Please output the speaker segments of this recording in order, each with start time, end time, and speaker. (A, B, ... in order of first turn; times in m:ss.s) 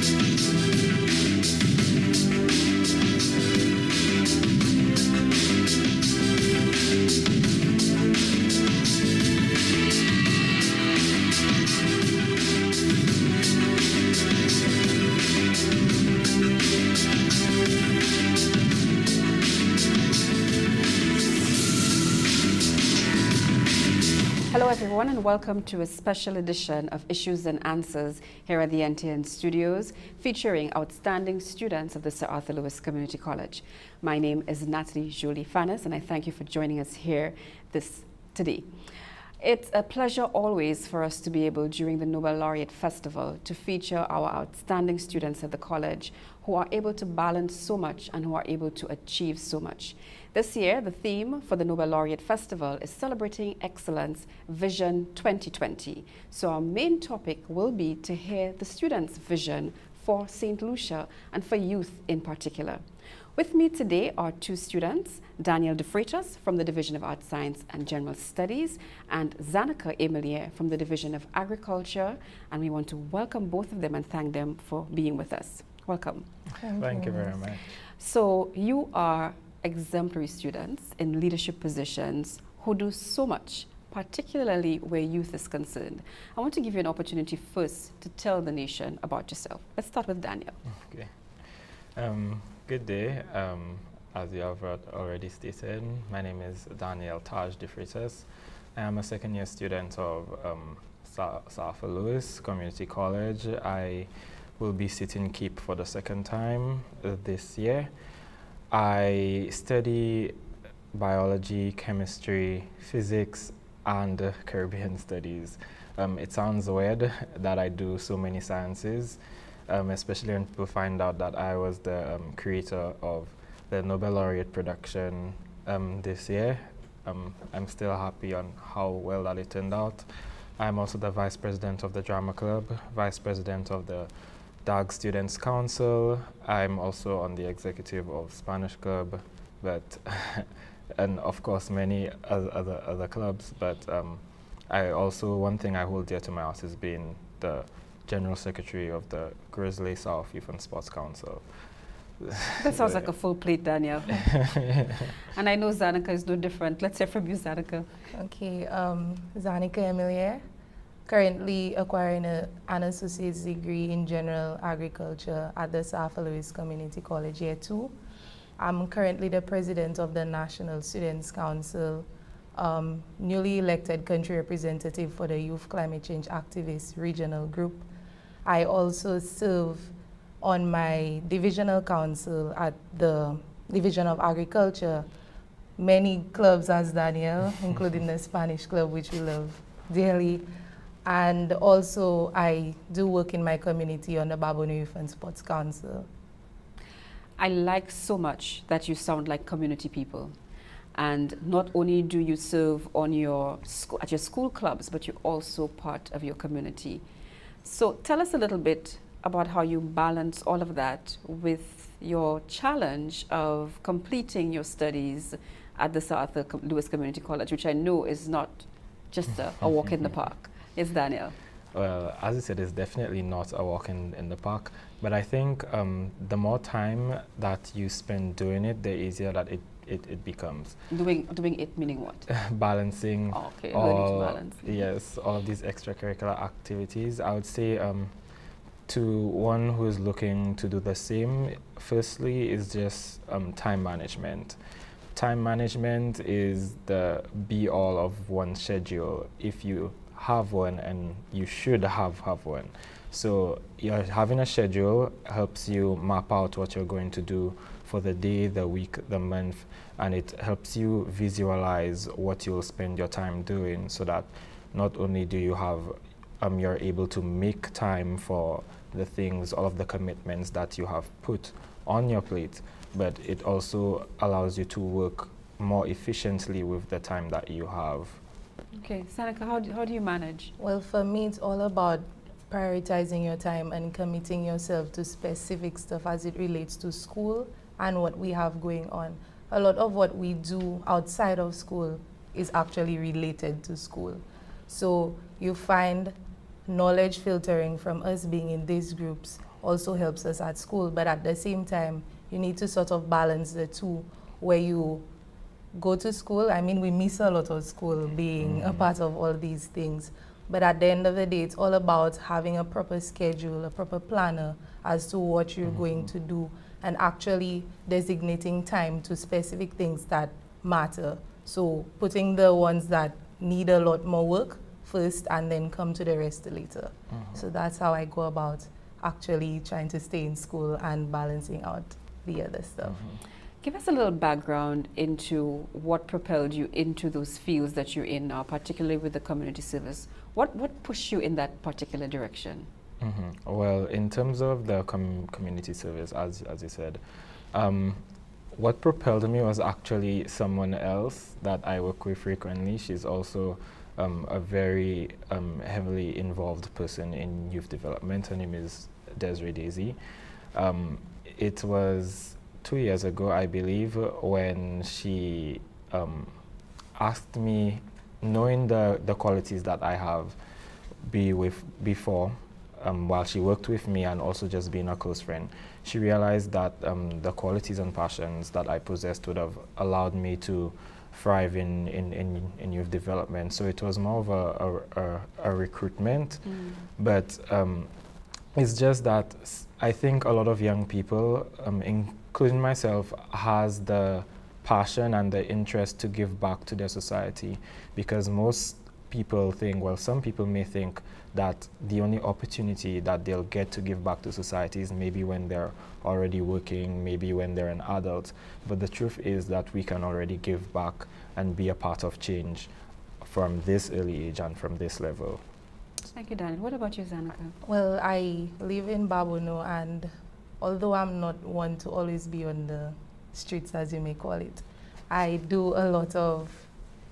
0:24.5-0:38.7 A
0:39.4-1:02.8 A
1:03.4-1:16.2 A
1:16.6-1:17.4 B
1:16.8-1:17.7 C
1:18.0-1:30.6 A
1:30.8-1:31.1 C
1:32.0-1:47.9 C
1:48.7-1:50.4 C
1:50.9-2:10.0 C
2:10.6-2:14.1 C
2:14.6-2:31.4 C
2:32.2-2:33.0 C
2:32.6-2:34.3 A
2:34.1-2:35.1 C
2:35.3-2:37.9 A
2:38.1-2:40.4 B
2:41.1-2:47.9 B
2:48.6-2:57.8 B
2:58.4-3:05.0 B
3:05.8-3:10.4 B
3:11.0-3:16.1 B
3:17.4-3:20.3 A
3:20.9-3:27.0 A
3:27.6-3:41.3 A
3:41.7-3:50.8 C
3:50.9-3:52.3 A
3:52.3-3:58.1 C
3:53.3-3:54.7 A
3:58.9-4:04.6 C
4:05.1-4:38.2 C
4:38.7-4:40.5 A
4:40.6-4:56.1 B
4:56.7-5:05.0 B
5:05.8-5:33.0 B
5:08.4-5:08.9 C
5:15.6-5:16.1 C
5:32.9-5:33.2 C
5:33.6-5:42.7 A
5:43.0-5:47.0 C
5:47.5-5:48.0 C
5:48.5-6:00.0 C
6:00.5-6:06.3 C
6:07.0-6:10.4 C
6:11.0-6:26.4 C
6:26.4-6:26.8 A
6:27.0-6:27.9 C
6:28.5-6:52.7 C
6:53.2-6:55.4 C
6:56.1-6:57.5 A
6:57.6-7:06.7 B